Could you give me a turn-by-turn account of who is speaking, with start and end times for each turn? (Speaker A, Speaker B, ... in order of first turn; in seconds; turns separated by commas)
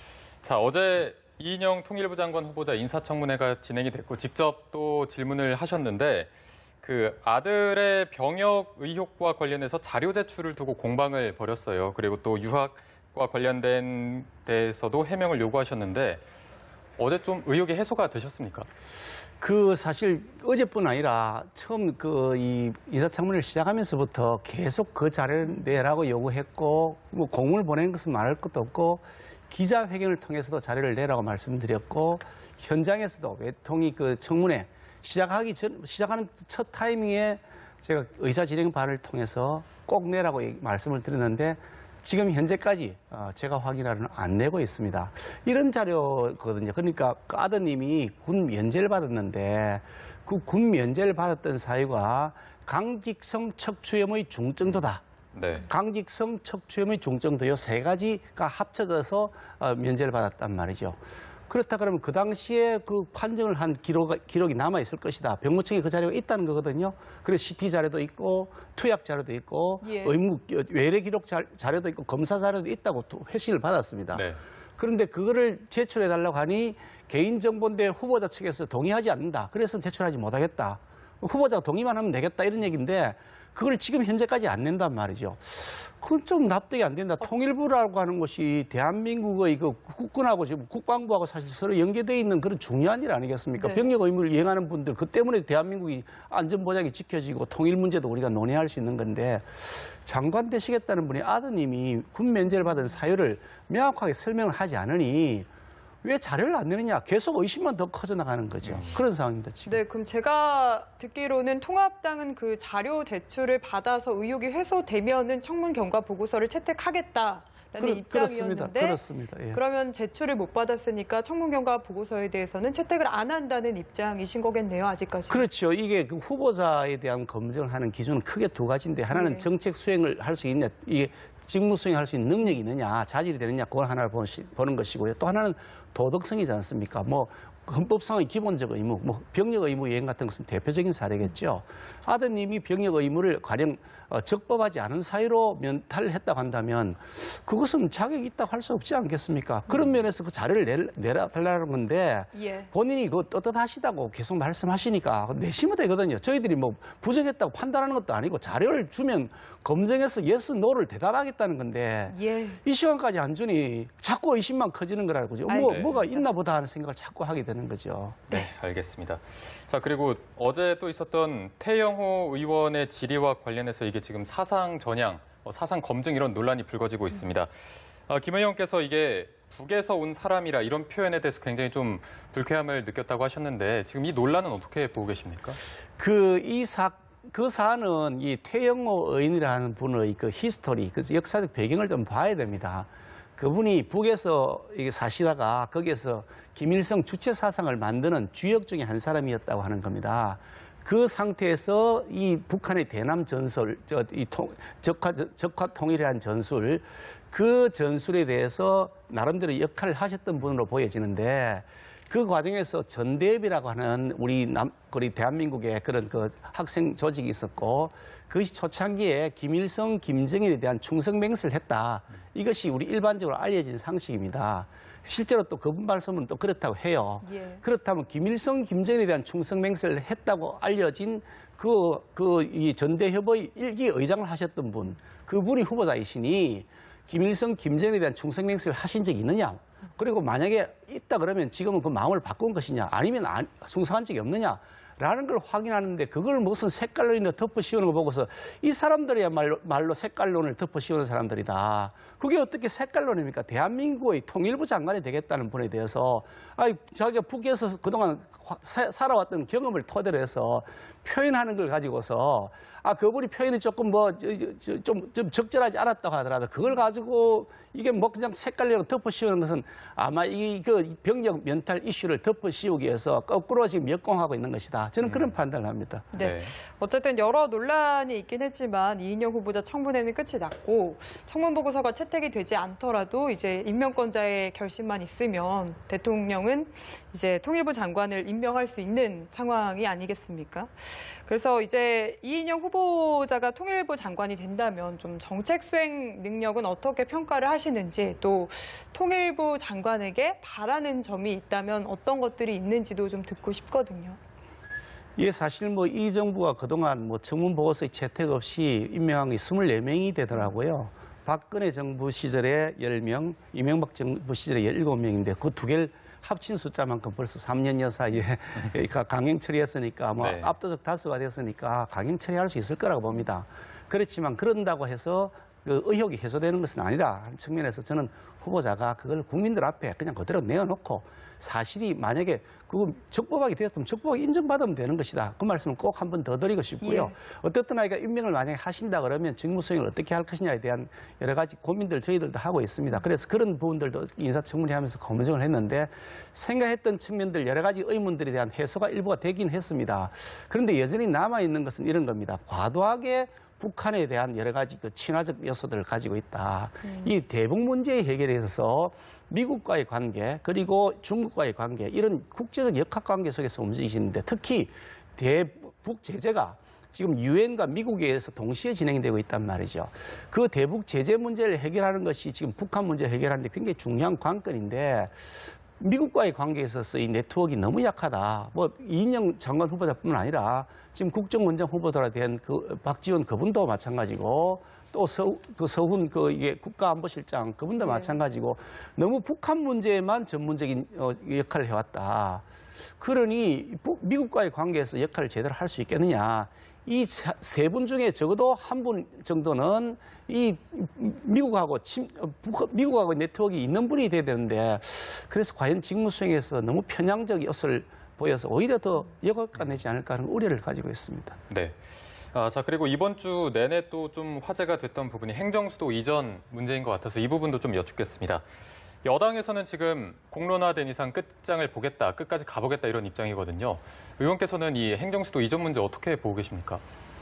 Speaker A: 0.4-6.3, Speaker A: 6.8-16.2, Speaker A: 17.0-18.7, Speaker B: 19.4-55.0, Speaker A: 55.3-55.7, Speaker B: 55.6-61.0, Speaker B: 61.5-74.3, Speaker C: 69.8-70.2, Speaker B: 74.8-105.5, Speaker C: 93.6-93.9, Speaker B: 106.0-109.8, Speaker A: 108.6-108.9, Speaker C: 109.7-125.5, Speaker B: 117.8-119.6, Speaker B: 125.3-168.3, Speaker C: 129.1-129.5, Speaker C: 152.3-152.7, Speaker C: 162.1-162.6, Speaker C: 165.5-166.2, Speaker A: 165.6-165.9, Speaker A: 168.3-177.5, Speaker A: 178.1-185.6, Speaker B: 186.0-276.1, Speaker C: 227.2-227.6, Speaker A: 275.0-275.3, Speaker C: 276.1-304.2, Speaker A: 276.2-276.5, Speaker B: 305.2-375.1, Speaker A: 320.2-320.6, Speaker C: 336.8-337.1, Speaker C: 356.8-357.1, Speaker B: 375.8-392.4, Speaker C: 387.8-388.1, Speaker B: 393.0-411.4, Speaker A: 411.5-411.8, Speaker A: 412.3-418.4, Speaker A: 419.0-426.8